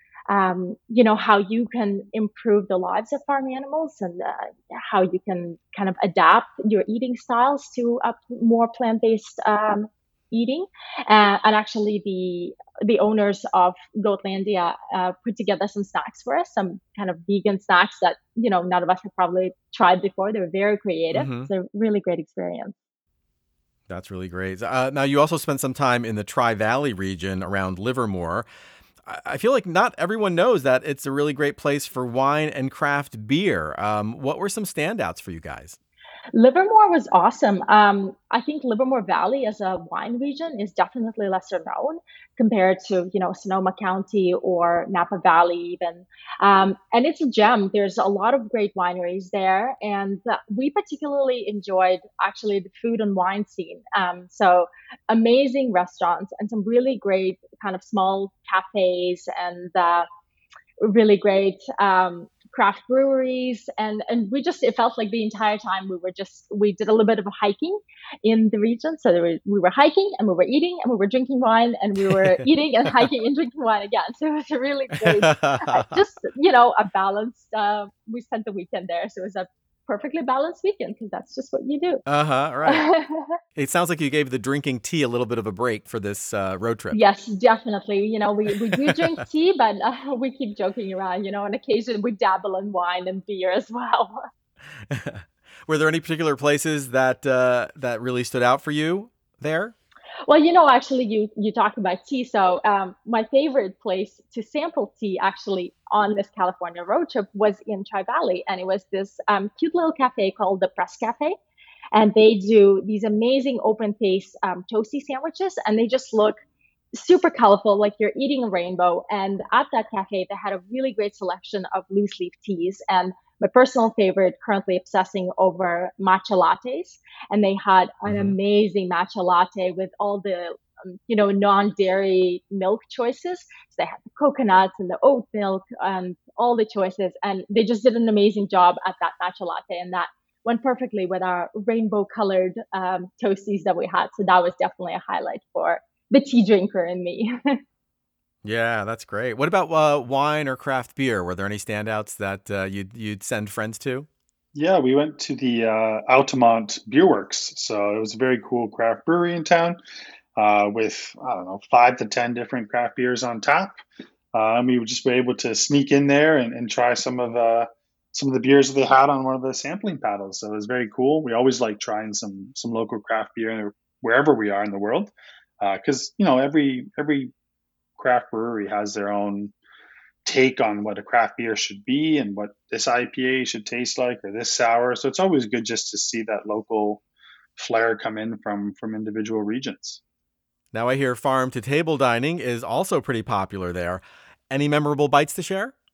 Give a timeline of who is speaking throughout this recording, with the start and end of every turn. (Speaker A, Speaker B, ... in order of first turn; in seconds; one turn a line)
Speaker A: 0.3-22.7
Speaker B: 21.1-21.5
Speaker B: 23.9-28.4
Speaker B: 29.0-35.8
Speaker A: 36.3-60.1
Speaker A: 60.8-82.0
Speaker B: 75.0-76.0
Speaker B: 82.0-82.8
Speaker A: 82.6-83.4
Speaker B: 83.5-87.0
Speaker A: 86.9-94.2
Speaker B: 88.7-89.0
Speaker B: 94.9-99.7
Speaker A: 100.3-111.4
Speaker A: 111.9-116.4
Speaker A: 116.9-147.6
Speaker B: 128.1-128.3
Speaker B: 148.4-154.1
Speaker C: 154.5-159.8
Speaker C: 160.3-163.8
Speaker C: 164.3-177.3
Speaker C: 178.0-179.5
Speaker C: 180.2-187.0
Speaker C: 187.6-190.0
Speaker B: 190.7-195.7